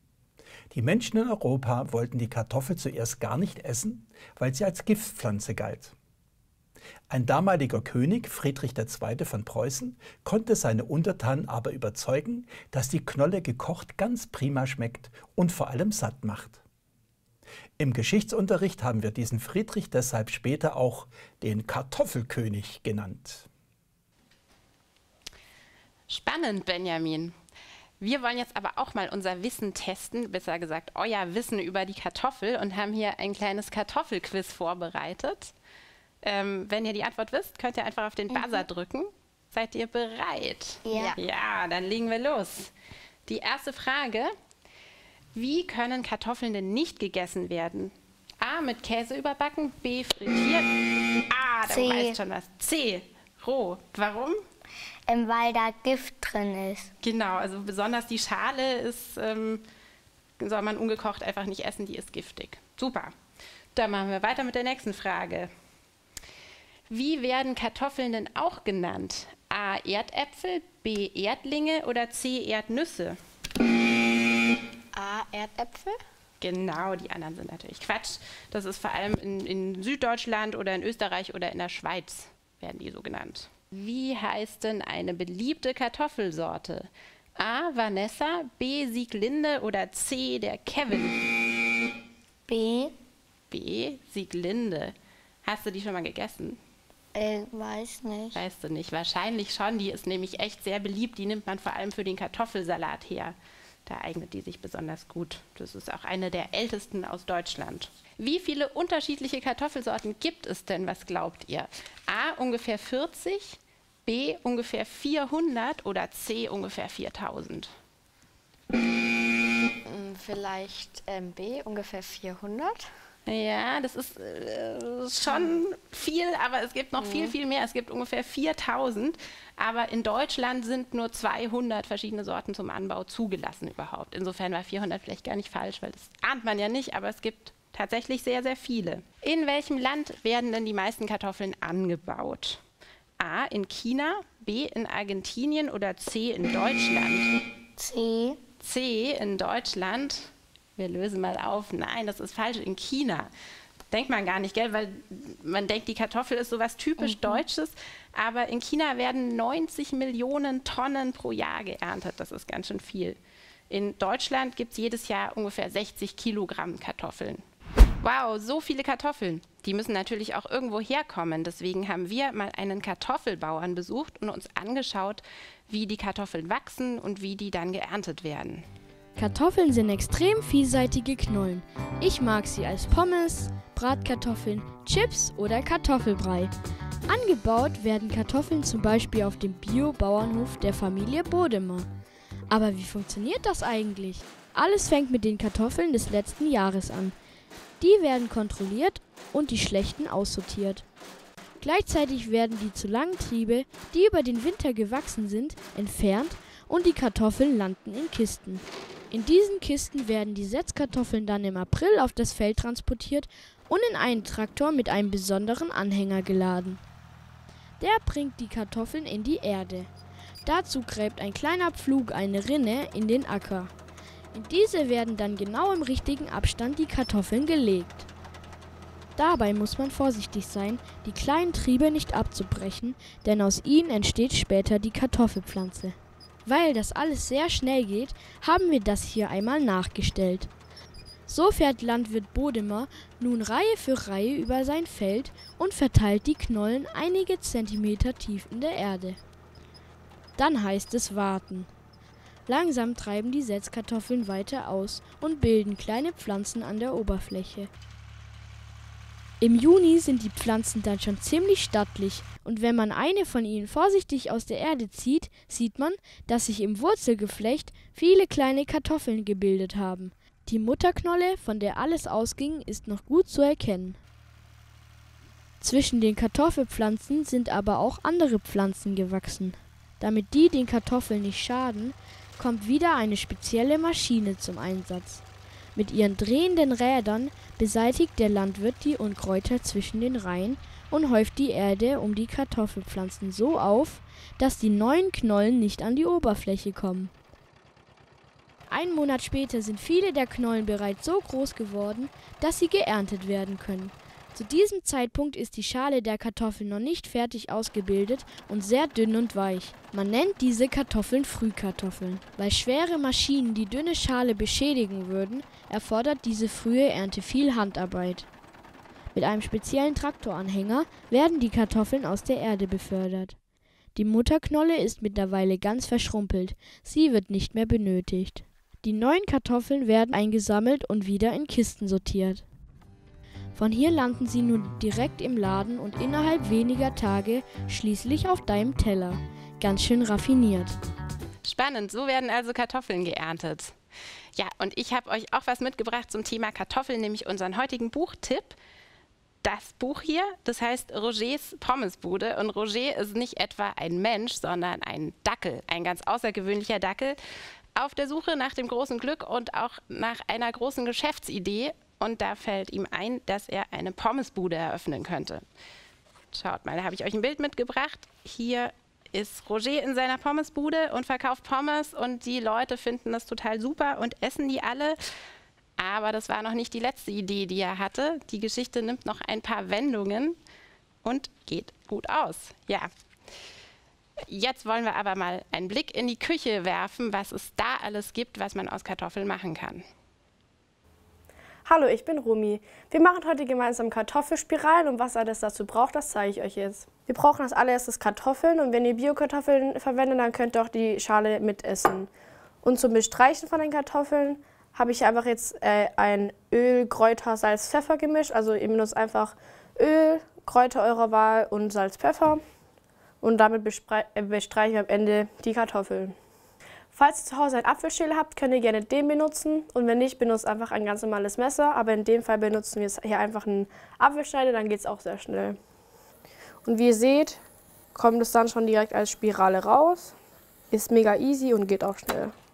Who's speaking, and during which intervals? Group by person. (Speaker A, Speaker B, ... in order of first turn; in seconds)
Speaker A: 0.7-5.9, 7.1-16.6, 17.8-23.5
Speaker B: 26.1-27.3, 28.0-35.5, 36.2-42.7, 43.3-44.3, 45.3-50.6, 51.3-54.4, 57.0-59.6, 60.4-63.1, 63.8-65.5, 66.9-73.2, 76.4-91.2, 93.5-94.9, 95.4-96.6, 98.3-117.7, 123.2-142.6, 143.2-147.3, 148.6-153.3, 153.9-163.2, 163.7-167.4, 168.0-178.7, 341.4-343.7, 344.4-348.6, 349.4-357.2, 357.8-365.4, 366.3-375.0, 375.8-380.4, 381.0-382.9, 384.3-389.8
Speaker C: 38.3-38.6, 74.9-75.9, 119.8-122.9, 127.0-127.3
Speaker D: 40.8-41.1, 51.7-52.2, 55.1-56.9, 92.5-93.0, 97.1-98.4, 147.8-148.4, 157.0-157.3
Speaker E: 179.2-186.5, 187.1-191.9, 192.5-197.1, 197.8-200.8, 201.6-216.8, 217.8-219.9, 220.4-223.7, 224.3-228.1, 229.2-240.5, 241.3-249.2, 250.3-251.7, 252.5-257.7, 259.4-274.0, 275.6-285.2, 285.7-297.1, 298.7-318.3, 319.1-323.4, 323.9-332.4, 333.5-340.8
Speaker F: 391.6-402.1, 402.6-412.4, 413.2-416.1, 416.9-425.6, 426.6-427.4, 427.9-430.1, 430.7-432.3